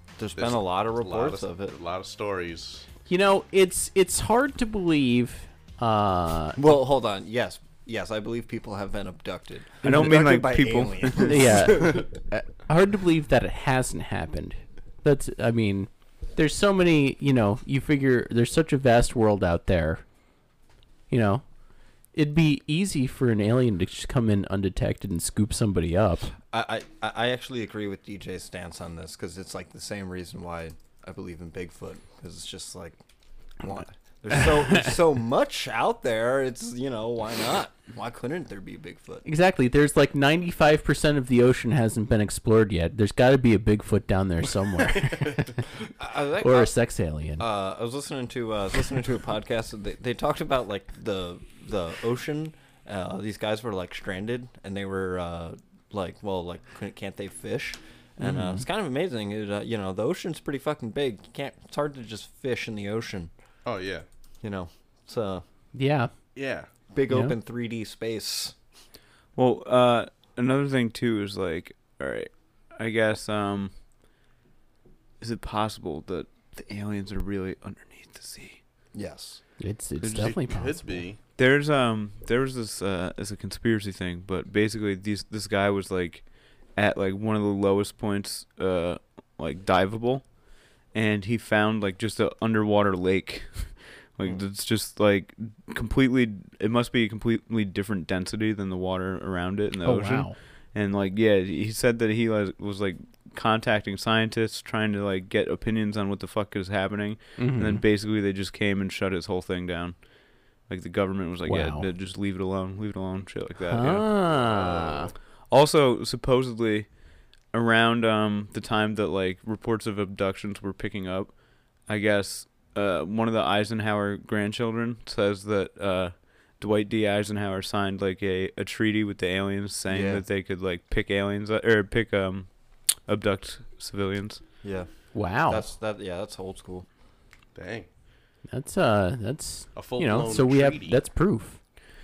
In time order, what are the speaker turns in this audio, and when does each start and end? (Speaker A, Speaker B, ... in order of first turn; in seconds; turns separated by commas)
Speaker A: 0.2-1.8, Speaker B: 0.4-2.9, Speaker C: 3.1-6.6, Speaker A: 6.6-12.1, Speaker D: 9.8-11.7, Speaker C: 11.2-20.0, Speaker C: 21.1-21.5, Speaker C: 22.1-26.3, Speaker A: 26.5-33.0, Speaker A: 33.6-39.2, Speaker C: 39.2-45.6, Speaker A: 46.0-46.7, Speaker C: 46.4-47.4, Speaker A: 47.4-63.3, Speaker B: 63.6-64.0, Speaker A: 64.4-65.4, Speaker C: 65.7-66.3, Speaker B: 66.3-66.7, Speaker A: 66.9-68.5, Speaker C: 67.1-67.3, Speaker D: 69.3-73.7, Speaker D: 75.2-78.6, Speaker A: 78.9-79.4, Speaker C: 79.6-81.0, Speaker D: 80.0-80.3, Speaker B: 80.2-81.2, Speaker D: 81.4-114.4, Speaker C: 99.8-100.3, Speaker C: 107.4-107.8, Speaker C: 111.5-111.9, Speaker C: 113.7-115.1, Speaker B: 114.4-115.1, Speaker D: 115.5-134.4, Speaker A: 129.9-130.2, Speaker A: 134.6-136.8, Speaker C: 135.1-135.7, Speaker B: 137.5-137.9, Speaker C: 138.5-141.6, Speaker B: 139.7-141.0